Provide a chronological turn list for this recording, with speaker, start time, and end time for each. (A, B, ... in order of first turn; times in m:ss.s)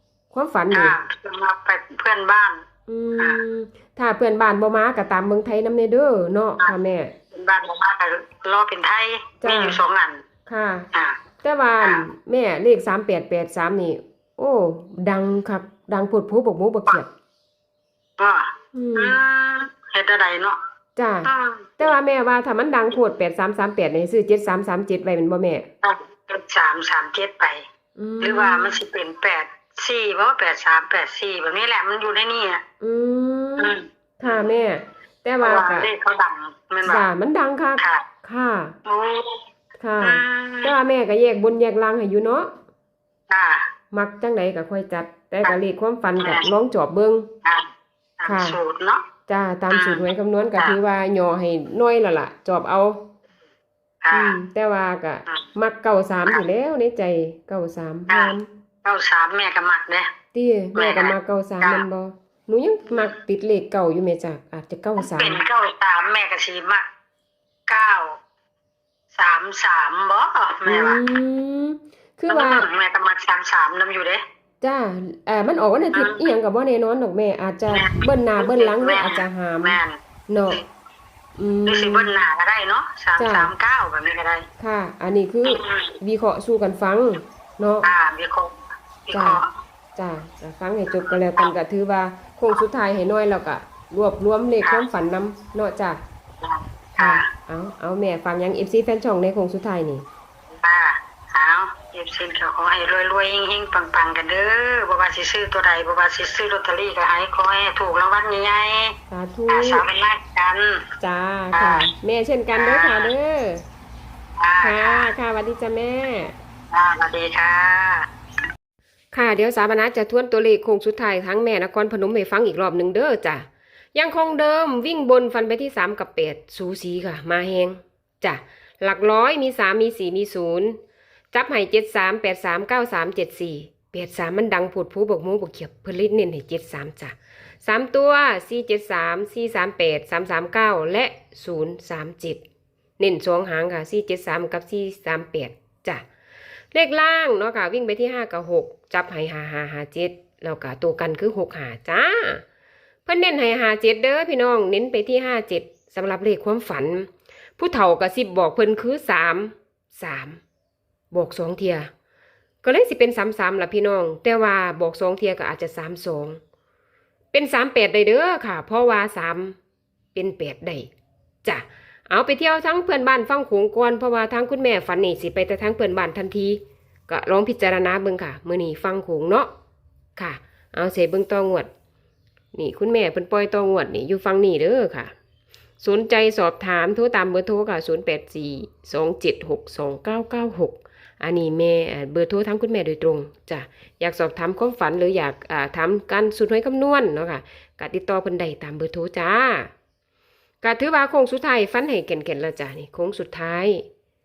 0:00.3-0:01.0 A
0:00.7-0:02.6 B
0:02.9-0:07.1 A
0:07.3-0:10.2 B
0:09.4-0:09.8 A
0:10.5-0:10.9 A
0:11.4-0:17.1 A
0:18.2-0:20.6 B
0:18.8-0:19.2 A
0:21.0-0:25.7 A
0:21.2-0:21.9 B
0:25.8-0:27.6 B
0:28.0-0:28.8 A
0:28.2-0:32.6 B
0:32.8-0:35.9 A
0:33.6-0:34.5 B
0:35.4-0:37.0 B
0:36.8-0:38.8 A
0:37.8-0:38.0 B
0:38.9-0:39.4 B
0:39.8-0:42.5 A
0:40.0-0:40.7 B
0:43.3-0:43.6 B
0:43.9-0:47.3 A
0:46.2-0:46.4 B
0:48.2-0:49.0 B
0:48.3-0:48.6 A
0:49.3-0:53.1 A
0:49.7-0:50.1 B
0:54.0-0:54.4 B
0:54.1-0:58.5 A
0:58.1-1:00.1 B
1:00.3-1:05.4 A
1:00.8-1:01.8 B
1:05.0-1:06.8 B
1:07.7-1:08.2 B
1:09.1-1:11.0 B
1:10.7-1:12.7 A
1:12.3-1:14.2 B
1:14.6-1:19.8 A
1:15.9-1:16.3 B
1:17.7-1:20.0 B
1:20.3-1:20.6 A
1:21.4-1:22.1 A
1:21.7-1:24.5 B
1:23.2-1:23.5 A
1:24.6-1:27.9 A
1:25.5-1:25.9 B
1:27.8-1:29.5 B
1:29.1-1:29.4 A
1:30.0-1:36.0 A
1:30.9-1:31.5 B
1:36.4-1:37.3 B
1:37.0-1:40.0 A
1:40.6-1:49.0 B
1:49.1-1:49.8 A
1:49.5-1:50.8 B
1:51.0-1:53.6 A
1:51.5-1:51.9 B
1:52.5-1:53.1 B
1:54.4-1:55.1 B
1:54.6-1:56.4 A
1:56.7-1:58.0 B
1:59.1-2:10.8 A
2:11.3-2:22.4 A
2:23.0-2:26.0 A
2:26.7-2:32.4 A
2:33.1-2:40.4 A
2:41.1-2:41.9 A
2:42.6-2:46.4 A
2:47.3-2:49.6 A
2:50.2-2:50.9 A
2:51.4-2:59.5 A
3:00.2-3:01.7 A
3:02.5-3:05.1 A
3:05.8-3:19.7 A
3:20.6-3:23.8 A